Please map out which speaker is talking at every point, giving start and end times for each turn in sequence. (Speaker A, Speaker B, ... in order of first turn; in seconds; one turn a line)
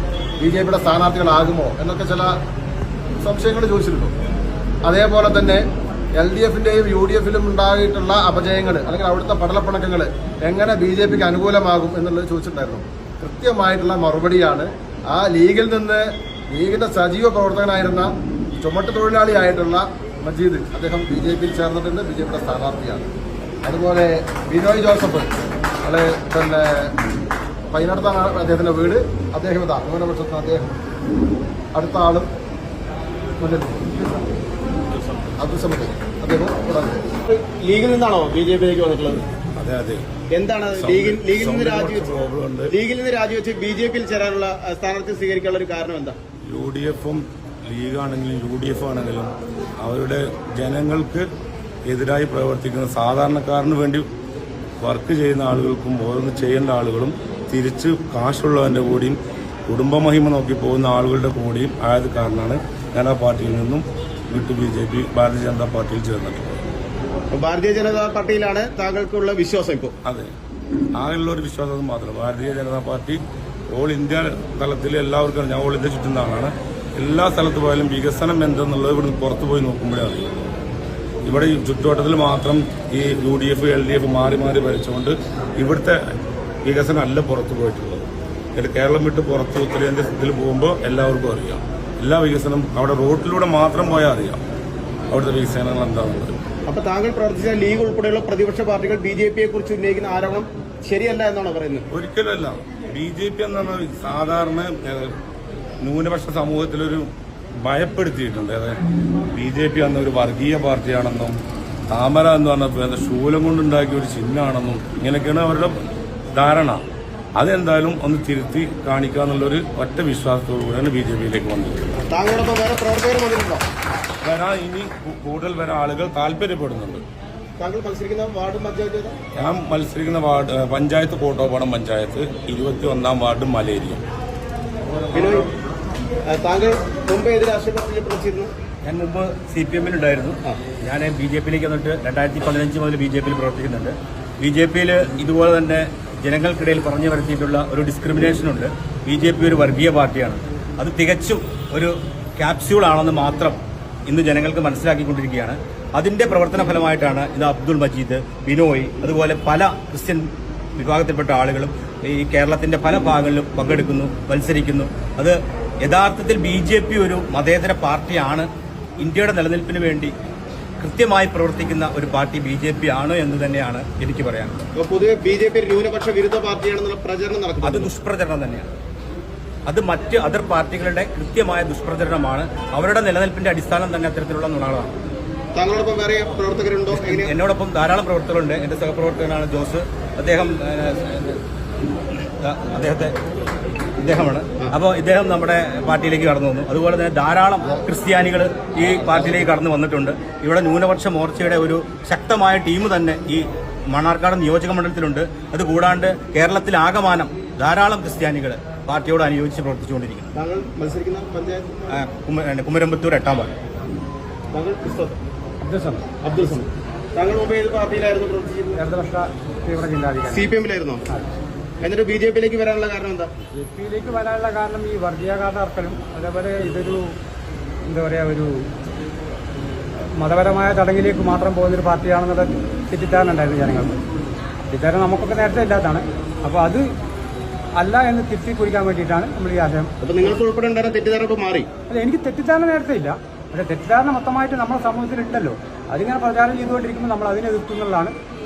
Speaker A: 0.4-2.3
Speaker A: 3.2-4.1
Speaker A: 4.8-5.6
Speaker A: 6.2-18.1
Speaker A: 18.6-23.1
Speaker A: 23.6-25.3
Speaker A: 25.8-26.9
Speaker A: 27.7-30.8
Speaker A: 31.7-32.3
Speaker A: 33.4-34.2
Speaker A: 35.4-37.0
Speaker B: 37.3-39.2
Speaker C: 39.6-40.0
Speaker B: 40.3-42.1
Speaker C: 40.7-42.7
Speaker B: 42.7-46.2
Speaker C: 46.5-51.3
Speaker C: 51.9-54.1
Speaker C: 54.8-66.6
Speaker B: 67.3-69.9
Speaker C: 70.0-70.3
Speaker C: 71.0-73.2
Speaker C: 73.7-80.3
Speaker C: 81.3-86.0
Speaker C: 86.7-94.4
Speaker C: 95.1-96.3
Speaker B: 96.7-101.9
Speaker C: 101.9-105.1
Speaker C: 105.8-108.8
Speaker C: 109.3-111.4
Speaker C: 111.9-116.8
Speaker C: 117.4-121.9
Speaker B: 122.0-123.7
Speaker C: 124.2-127.0
Speaker B: 127.6-129.2
Speaker C: 129.3-134.0
Speaker B: 135.1-135.5
Speaker B: 136.3-138.5
Speaker D: 138.8-160.3
Speaker D: 160.8-168.5
Speaker D: 169.0-170.1
Speaker D: 170.8-174.6
Speaker B: 174.8-177.9
Speaker D: 177.6-178.7
Speaker D: 179.7-184.9
Speaker B: 185.5-187.3
Speaker D: 186.9-191.4
Speaker D: 192.4-193.1
Speaker D: 194.0-210.3
Speaker B: 210.3-212.0
Speaker D: 211.9-213.5
Speaker B: 214.5-215.2
Speaker E: 215.6-216.0
Speaker B: 216.2-218.8
Speaker E: 218.8-220.5
Speaker B: 220.3-221.0
Speaker B: 221.8-223.3
Speaker E: 223.5-227.1
Speaker E: 227.9-228.6
Speaker E: 230.2-234.0
Speaker E: 234.7-236.8
Speaker E: 237.8-239.9
Speaker B: 240.0-241.7
Speaker E: 241.9-248.1